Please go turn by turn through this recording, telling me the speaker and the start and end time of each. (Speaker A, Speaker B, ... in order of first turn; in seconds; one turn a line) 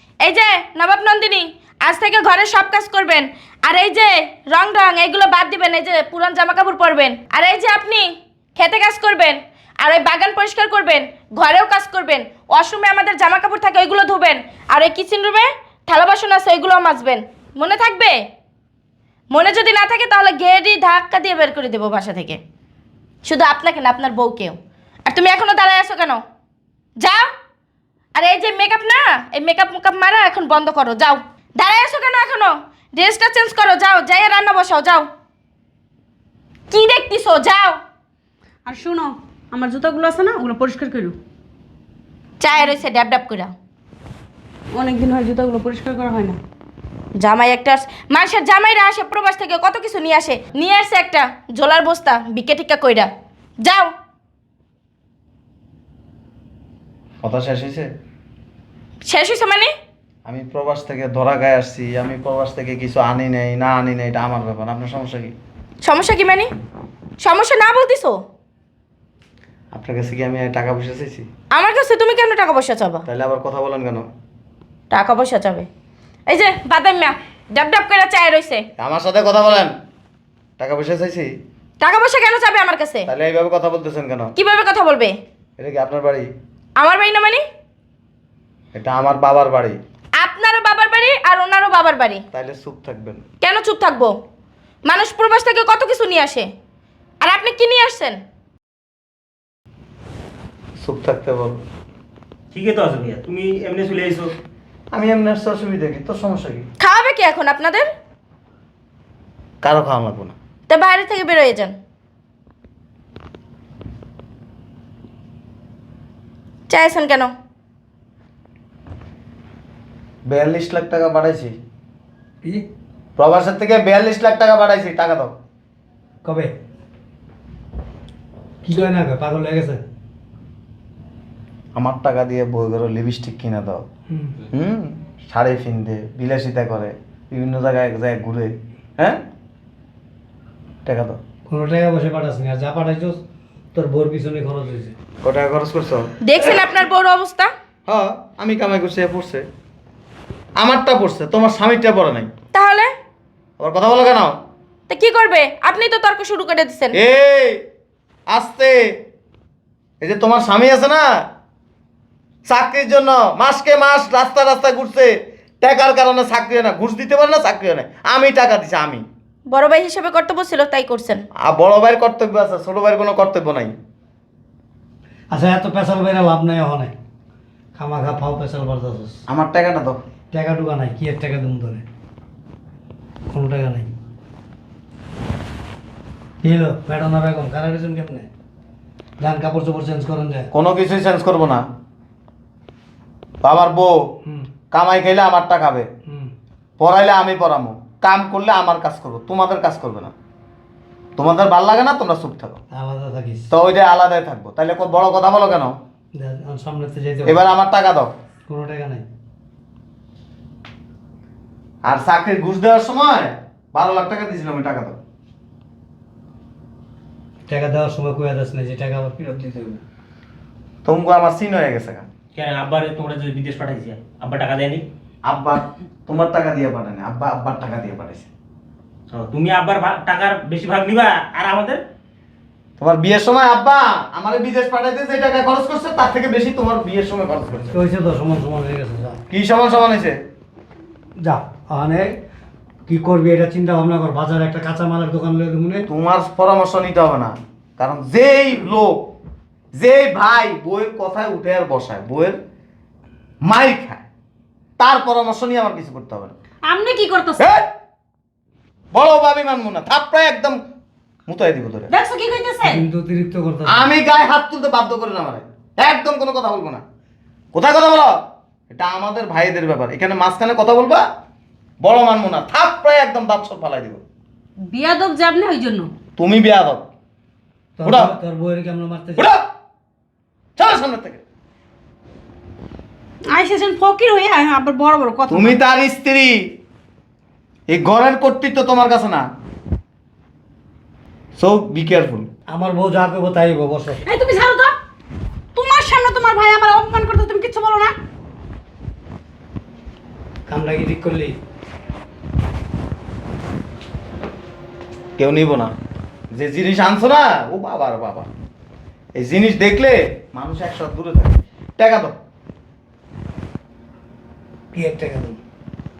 Speaker A: 0.2-18.2
Speaker A: 19.3-22.4
Speaker A: 23.2-26.2
Speaker A: 27.0-27.2
Speaker A: 28.1-35.1
Speaker A: 36.7-37.8
Speaker B: 38.6-41.1
Speaker A: 42.4-43.5
Speaker B: 44.8-46.4
Speaker A: 47.2-53.1
Speaker A: 53.6-53.9
Speaker C: 57.2-57.9
Speaker A: 59.0-59.7
Speaker C: 60.2-65.3
Speaker A: 65.8-66.5
Speaker A: 67.2-68.2
Speaker C: 69.7-71.3
Speaker A: 71.5-73.0
Speaker C: 73.1-74.1
Speaker A: 74.9-75.7
Speaker A: 76.3-78.7
Speaker C: 78.8-79.7
Speaker C: 80.6-81.3
Speaker A: 81.8-83.1
Speaker C: 83.1-84.3
Speaker A: 84.4-85.1
Speaker C: 85.6-86.3
Speaker A: 86.8-87.4
Speaker C: 88.7-89.8
Speaker A: 90.2-92.2
Speaker C: 92.3-93.2
Speaker A: 93.4-94.1
Speaker A: 94.9-96.5
Speaker A: 97.2-98.2
Speaker C: 100.8-101.6
Speaker D: 102.5-104.3
Speaker C: 104.9-106.7
Speaker A: 106.8-107.8
Speaker C: 109.6-110.3
Speaker A: 110.7-111.8
Speaker A: 116.7-117.3
Speaker C: 120.3-121.5
Speaker C: 123.2-125.3
Speaker E: 126.2-126.5
Speaker E: 128.6-129.8
Speaker C: 131.7-133.8
Speaker E: 134.1-134.4
Speaker C: 134.5-139.2
Speaker C: 140.8-141.2
Speaker E: 141.5-143.2
Speaker E: 143.7-144.9
Speaker C: 145.2-146.1
Speaker A: 146.2-147.5
Speaker C: 147.9-149.4
Speaker C: 150.6-152.3
Speaker A: 152.5-152.9
Speaker C: 153.6-154.3
Speaker A: 154.9-157.0
Speaker C: 156.9-157.6
Speaker C: 158.3-158.9
Speaker C: 160.0-161.0
Speaker C: 162.4-169.0
Speaker A: 169.5-171.2
Speaker C: 171.4-173.7
Speaker E: 175.3-176.9
Speaker E: 177.8-179.2
Speaker C: 179.3-180.0
Speaker E: 180.3-181.8
Speaker E: 183.3-183.9
Speaker E: 186.4-188.3
Speaker E: 189.2-190.5
Speaker C: 190.5-191.6
Speaker C: 193.4-194.0
Speaker C: 194.7-195.9
Speaker E: 196.1-196.3
Speaker C: 196.8-200.1
Speaker C: 201.2-202.6
Speaker E: 202.7-203.5
Speaker C: 203.5-205.8
Speaker E: 206.1-207.4
Speaker C: 207.2-208.1
Speaker E: 208.5-209.1
Speaker C: 211.8-215.0
Speaker E: 217.5-219.8
Speaker C: 220.8-222.1
Speaker D: 222.3-224.8
Speaker C: 225.2-228.3
Speaker D: 229.1-231.8
Speaker C: 232.8-237.8
Speaker E: 237.7-239.2
Speaker C: 239.3-240.2
Speaker E: 241.2-242.2
Speaker E: 242.9-245.9
Speaker C: 245.9-249.1
Speaker C: 249.7-252.4
Speaker C: 253.4-254.0
Speaker C: 254.8-256.3
Speaker B: 256.7-257.4
Speaker C: 257.4-257.7
Speaker C: 258.9-260.6
Speaker C: 261.3-261.9
Speaker B: 261.9-262.8
Speaker E: 262.6-263.9
Speaker C: 263.6-266.8
Speaker C: 267.5-268.1
Speaker C: 268.7-271.1
Speaker C: 271.8-274.0
Speaker B: 274.7-275.9
Speaker C: 276.2-276.8
Speaker E: 277.8-279.3
Speaker C: 277.8-278.1
Speaker C: 279.2-279.4
Speaker C: 280.6-281.2
Speaker B: 283.3-285.6
Speaker C: 285.3-286.5
Speaker C: 287.7-289.2
Speaker C: 291.4-292.3
Speaker E: 292.5-294.0
Speaker B: 294.0-294.7
Speaker B: 295.5-297.9
Speaker E: 300.5-301.4
Speaker C: 305.2-305.7
Speaker C: 306.3-308.3
Speaker C: 309.2-312.1
Speaker E: 314.7-315.4